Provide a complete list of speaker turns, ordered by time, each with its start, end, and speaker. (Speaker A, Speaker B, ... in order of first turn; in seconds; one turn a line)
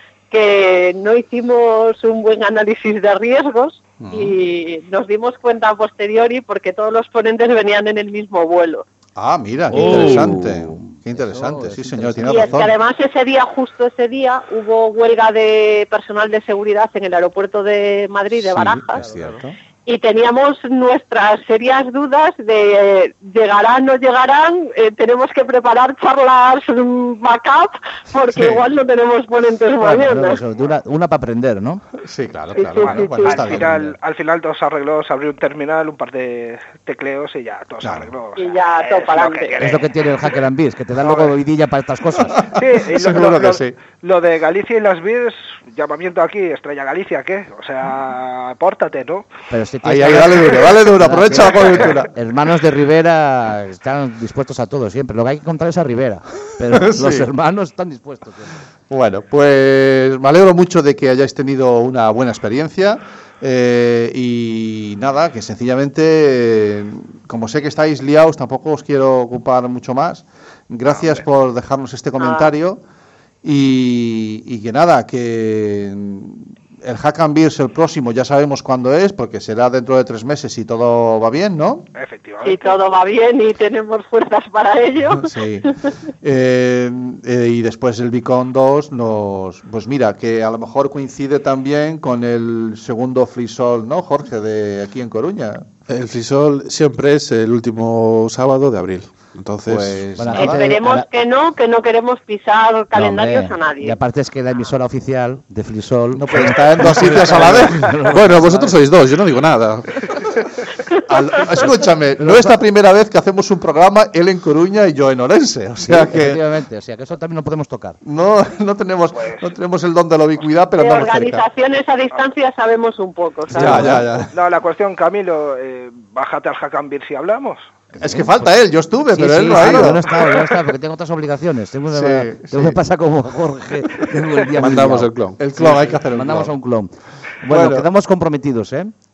Speaker A: 0.3-8.8
Speaker B: 4.0-4.3
Speaker B: 9.2-12.7
Speaker C: 9.7-12.6
Speaker A: 12.2-19.0
Speaker B: 18.4-19.6
Speaker C: 18.9-19.4
Speaker A: 19.8-30.4
Speaker B: 28.3-28.6
Speaker C: 29.8-31.8
Speaker B: 32.0-33.9
Speaker A: 32.5-33.6
Speaker D: 32.8-40.3
Speaker B: 37.8-38.1
Speaker A: 38.4-39.6
Speaker C: 39.6-42.5
Speaker D: 41.0-41.3
Speaker B: 42.4-43.8
Speaker D: 42.5-49.3
Speaker C: 49.5-58.6
Speaker B: 49.8-52.1
Speaker D: 51.6-51.9
Speaker B: 56.7-57.3
Speaker B: 58.9-72.8
Speaker D: 70.9-71.2
Speaker A: 72.2-72.5
Speaker B: 73.4-81.9
Speaker D: 81.9-82.8
Speaker A: 82.4-85.3
Speaker B: 85.1-95.7
Speaker E: 95.9-100.0
Speaker B: 99.6-100.7
Speaker C: 100.2-101.1
Speaker A: 100.3-104.0
Speaker C: 102.9-108.8
Speaker B: 106.1-107.9
Speaker E: 108.1-110.0
Speaker B: 111.0-116.4
Speaker C: 112.2-112.5
Speaker C: 115.8-118.0
Speaker B: 118.0-121.4
Speaker D: 119.1-119.5
Speaker A: 120.8-123.9
Speaker C: 123.5-124.0
Speaker B: 123.5-124.3
Speaker D: 124.2-127.7
Speaker C: 128.0-128.3
Speaker B: 128.0-130.3
Speaker C: 129.1-138.9
Speaker B: 131.9-132.8
Speaker E: 134.6-135.4
Speaker B: 135.4-136.5
Speaker B: 137.4-137.9